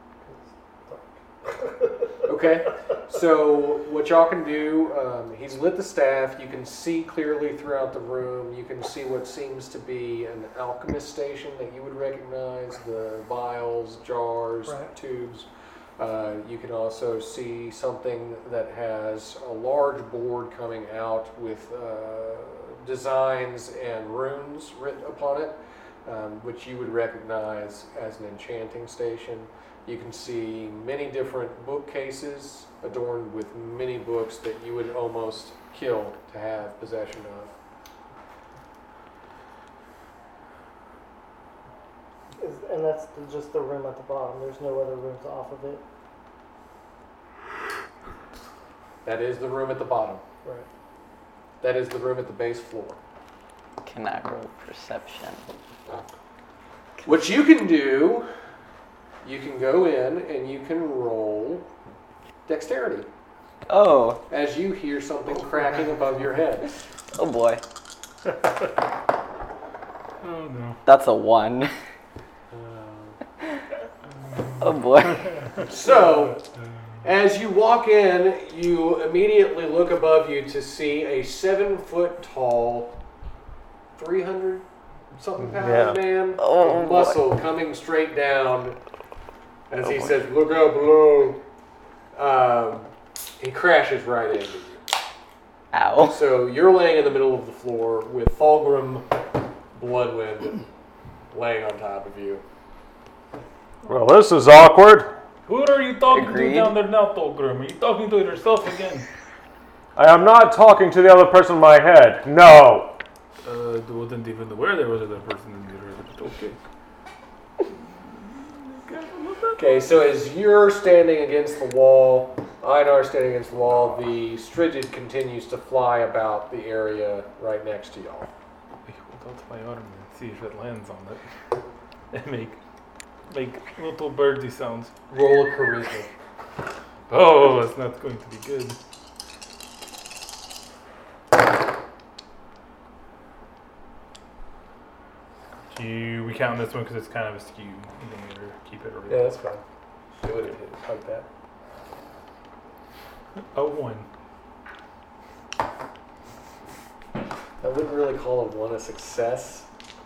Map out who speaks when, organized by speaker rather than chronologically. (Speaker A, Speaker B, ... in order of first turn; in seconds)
Speaker A: 0.2-2.1, 14.7-14.9, 42.4-45.8
Speaker B: 2.2-15.5, 16.0-37.5, 49.0-50.2, 51.6-53.0, 57.0-58.3, 59.2-61.7, 62.5-63.1, 64.3-66.7, 72.5-73.2, 75.6-76.4, 77.0-83.0, 83.9-84.6, 85.2-88.8, 89.7-91.4, 92.1-94.8, 96.0-99.1, 99.7-100.6, 101.3-102.4, 119.6-128.3, 135.1-136.1, 149.1-149.6, 150.2-151.3, 157.6-159.7
Speaker C: 53.8-55.4, 63.7-64.2, 67.2-67.6, 70.8-71.7, 74.6-75.3, 86.4-87.2, 95.7-96.2, 106.1-106.7
Speaker D: 70.2-70.8, 105.5-109.1, 113.4-116.6, 118.0-119.9, 128.8-131.2, 132.1-132.6, 133.3-134.9, 137.1-138.8, 145.7-149.3, 153.5-154.1
Speaker E: 85.4-86.0, 103.8-105.1, 110.0-113.0